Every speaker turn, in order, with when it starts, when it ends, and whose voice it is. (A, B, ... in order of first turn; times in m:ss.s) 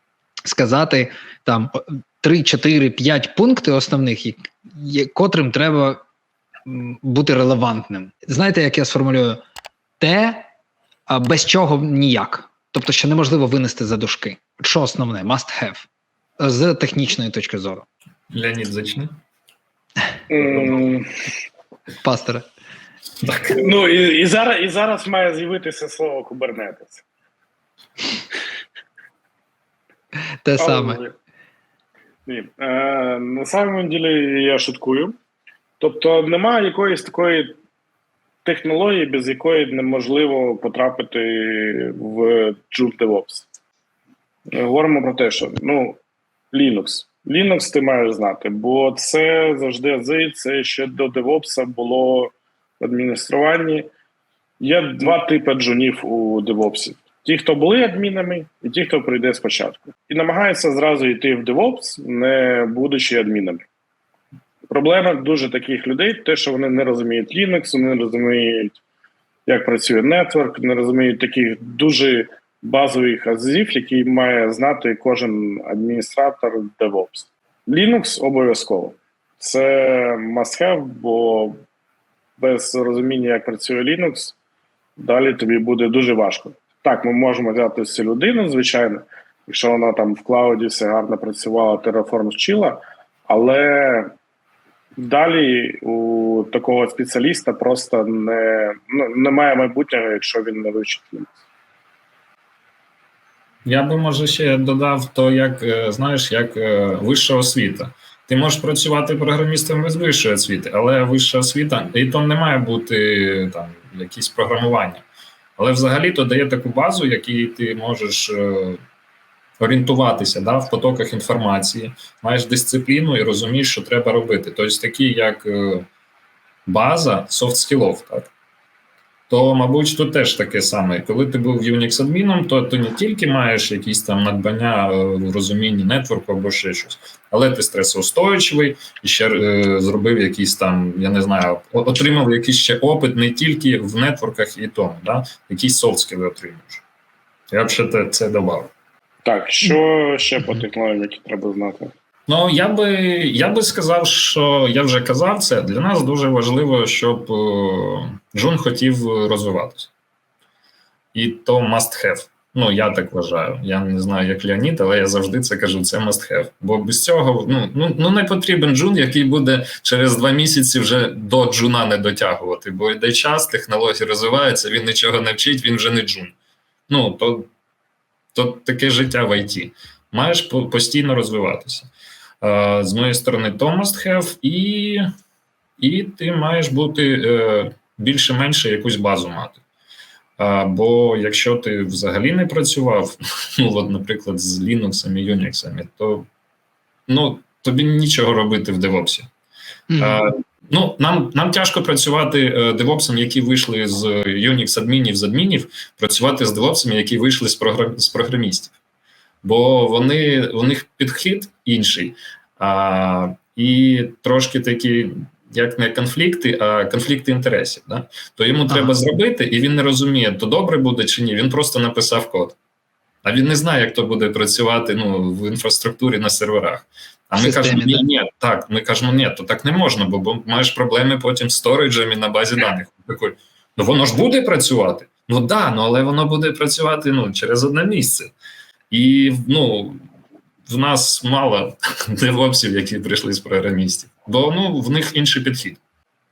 0:00.4-0:06.0 A
0:06.6-0:09.4 A
0:10.0-0:10.4 A
0:11.1-0:15.9 A
0:16.4-0:17.8 A
0:18.3-0:19.1 B
0:20.3-0:21.0 C
0:20.4-0:20.8 B
0:22.0-0:22.4 A
0:23.2-0:23.7 B
0:23.6-0:27.0 C
0:30.4-0:31.0 A
0:30.6-0:31.1 C
0:32.2-0:35.1 C
0:35.8-0:37.6 C
0:38.4-0:43.5 C
0:44.5-0:46.0 C
0:46.5-0:53.9 C
0:54.6-1:03.7 C
1:04.7-1:08.8 C
1:09.5-1:21.6 C
1:22.4-1:24.3 C
1:25.0-1:34.1 C
1:35.0-1:41.3 C
1:43.6-1:55.0 B
1:55.6-1:58.8 B
1:59.6-2:05.9 B
2:06.6-2:08.3 B
2:09.3-2:26.8 B
2:27.5-2:28.7 B
2:29.2-2:31.9 C
2:32.3-2:39.9 B
2:41.1-2:56.3 B
2:56.9-2:57.5 B
2:58.3-3:05.0 B
3:05.8-3:09.6 B
3:10.4-3:16.3 B
3:17.1-3:19.3 B
3:19.9-3:20.2 A
3:20.0-3:28.7 B
3:29.4-3:42.6 B
3:38.7-3:38.9 A
3:43.2-3:58.3 B
3:47.4-3:48.0 A
3:58.9-4:00.0 B
4:00.7-4:05.8 B